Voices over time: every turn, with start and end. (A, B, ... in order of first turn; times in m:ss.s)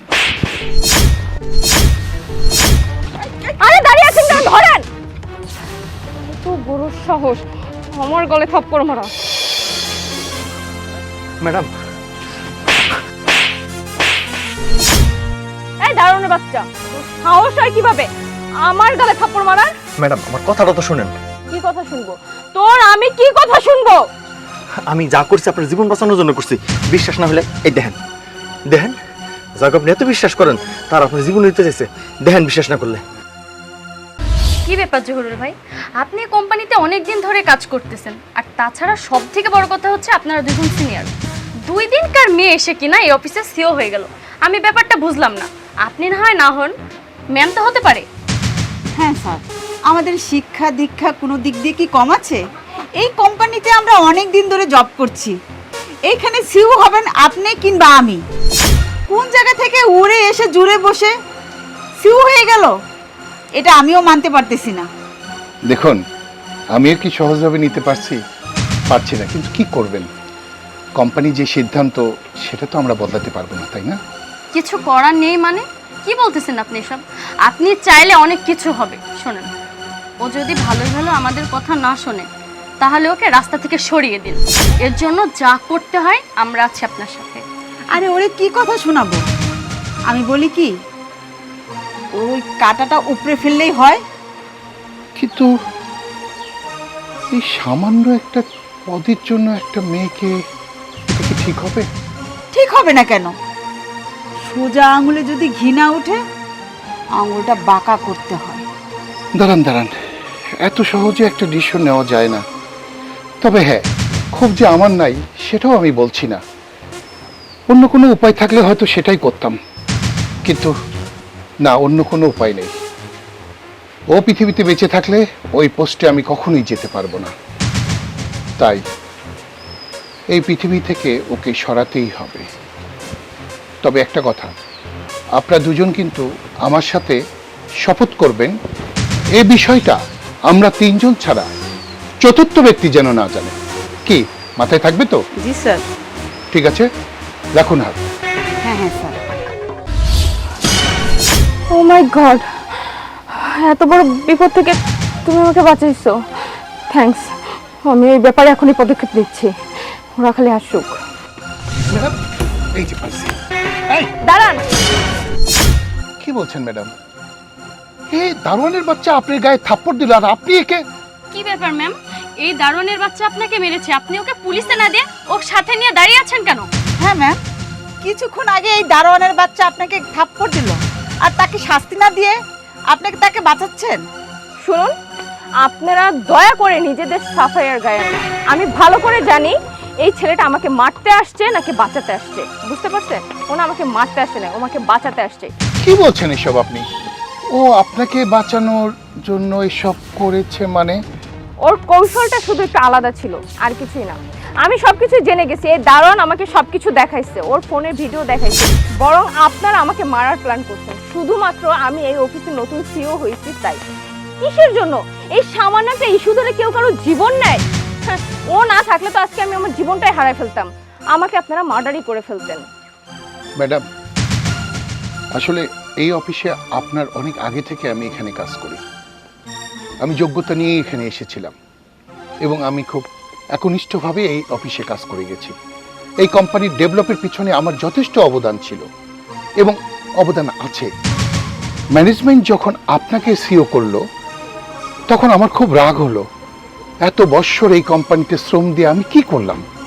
0:03.6-0:04.9 A
0:06.2-0:09.1 A
0:11.4-0:11.7 B
0:15.8-0:18.1 A
0:18.6-0:19.7 A
0:20.0-0:21.2 B
0:21.5-0:24.0 A
0:24.9-0:28.0 B
0:28.7-0:29.0 B
0:29.6-0:33.0 B
0:34.7-0:41.1 C
0:41.7-0:46.8 C
0:47.3-0:48.1 C
0:49.0-0:52.4 D
0:53.0-0:55.4 D
0:56.1-0:58.2 D
0:59.1-1:01.1 D
1:02.0-1:02.7 D
1:03.6-1:04.9 D
1:05.7-1:06.0 E
1:06.7-1:08.2 E
1:08.9-1:10.1 E
1:11.0-1:14.0 E
1:14.5-1:19.5 C
1:20.2-1:22.3 C
1:22.8-1:27.4 C
1:28.0-1:29.2 D
1:30.1-1:30.7 D
1:32.2-1:34.0 D
1:35.2-1:35.5 E
1:37.3-1:40.4 E
1:41.1-1:41.9 E
1:42.5-1:43.4 D
1:44.4-1:46.2 D
1:47.2-1:48.6 D
1:49.4-1:49.9 E
1:50.6-1:52.4 E
1:53.4-1:56.4 E
1:57.7-1:59.6 E
2:00.4-2:00.7 E
2:01.6-2:02.7 E
2:04.1-2:07.3 E
2:10.3-2:12.4 E
2:13.8-2:14.5 E
2:15.4-2:17.2 E
2:17.8-2:18.6 E
2:19.4-2:21.5 E
2:22.2-2:23.6 E
2:24.1-2:25.2 E
2:25.4-2:25.8 D
2:26.5-2:26.9 E
2:27.6-2:28.0 E
2:28.6-2:29.2 D
2:31.7-2:32.5 A
2:33.3-2:36.2 A
2:36.9-2:39.5 A
2:40.2-2:41.0 A
2:42.8-2:43.4 E
2:44.2-2:44.6 A
2:46.2-2:46.9 E
2:48.1-2:50.8 E
2:51.3-2:56.7 C
2:57.0-2:57.4 D
2:58.0-3:02.4 D
3:02.9-3:04.0 D
3:04.6-3:04.9 A
3:05.6-3:15.5 A
3:15.8-3:16.8 E
3:17.6-3:21.0 E
3:21.7-3:33.8 A
3:34.4-3:42.7 A
3:43.6-3:43.8 E
3:45.4-3:48.8 E
3:50.0-3:51.5 E
3:52.4-3:55.5 E
3:56.2-3:58.9 E
3:59.6-4:00.9 E
4:01.9-4:04.0 E
4:05.1-4:06.2 E
4:07.0-4:09.6 E